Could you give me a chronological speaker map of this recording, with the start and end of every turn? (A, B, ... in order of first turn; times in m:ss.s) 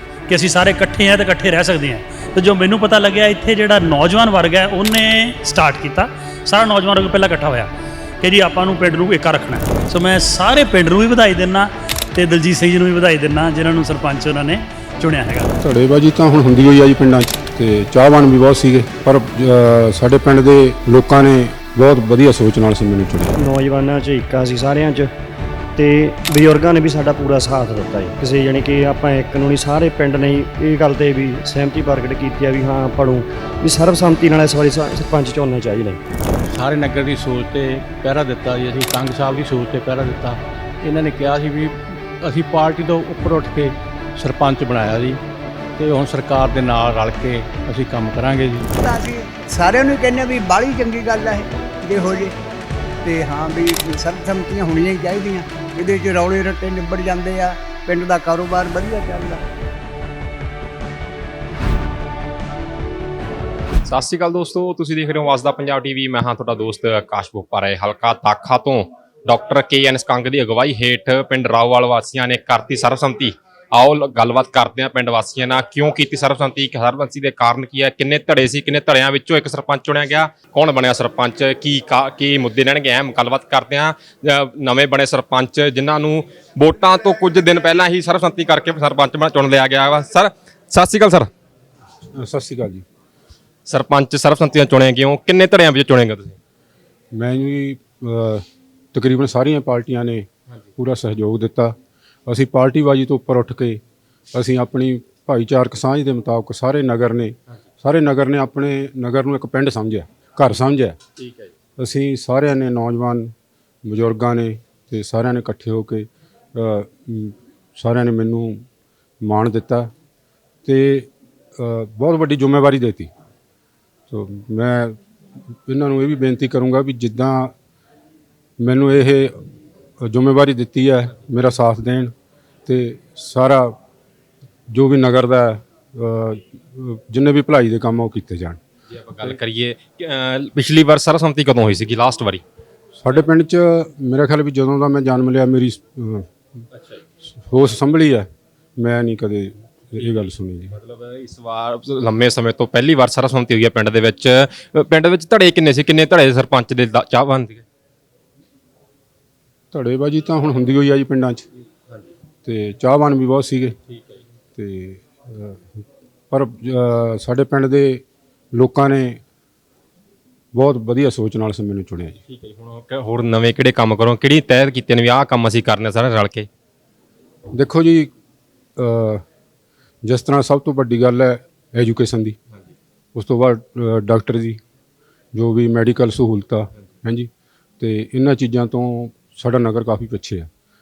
0:00.3-0:15.5 A
0:15.6-0:23.4 B
0:23.4-0:25.1 C
0:25.8-0:36.0 C
0:36.5-0:45.2 D
0:45.8-0:48.7 D
0:48.8-0:52.4 E
0:53.0-0:59.4 E
1:03.9-1:31.3 F
1:32.2-1:32.8 B
1:33.7-1:36.4 F
1:37.1-1:41.8 B
1:42.3-1:43.8 B
1:44.3-1:51.0 B
1:51.2-1:51.5 F
1:51.8-1:53.3 B
1:53.8-1:58.6 B
1:59.2-1:59.9 B
2:00.6-2:03.1 B
2:04.1-2:05.0 B
2:05.7-2:07.5 B
2:08.6-2:09.4 B
2:10.0-2:12.1 B
2:12.7-2:13.8 B
2:14.7-2:18.6 B
2:18.9-2:22.4 F
2:23.0-2:26.3 B
2:26.7-2:27.0 F
2:27.4-2:28.3 B
2:28.8-2:30.7 B
2:30.7-2:37.6 F
2:39.7-2:41.5 B
2:42.4-2:43.8 B
2:43.9-2:44.2 F
2:44.6-2:48.0 B
2:48.6-2:49.2 B
2:50.6-2:52.2 B
2:52.3-2:56.5 F
2:57.5-2:58.1 B
2:58.8-2:59.2 B
3:00.0-3:02.4 B
3:03.2-3:04.6 B
3:05.3-3:10.5 B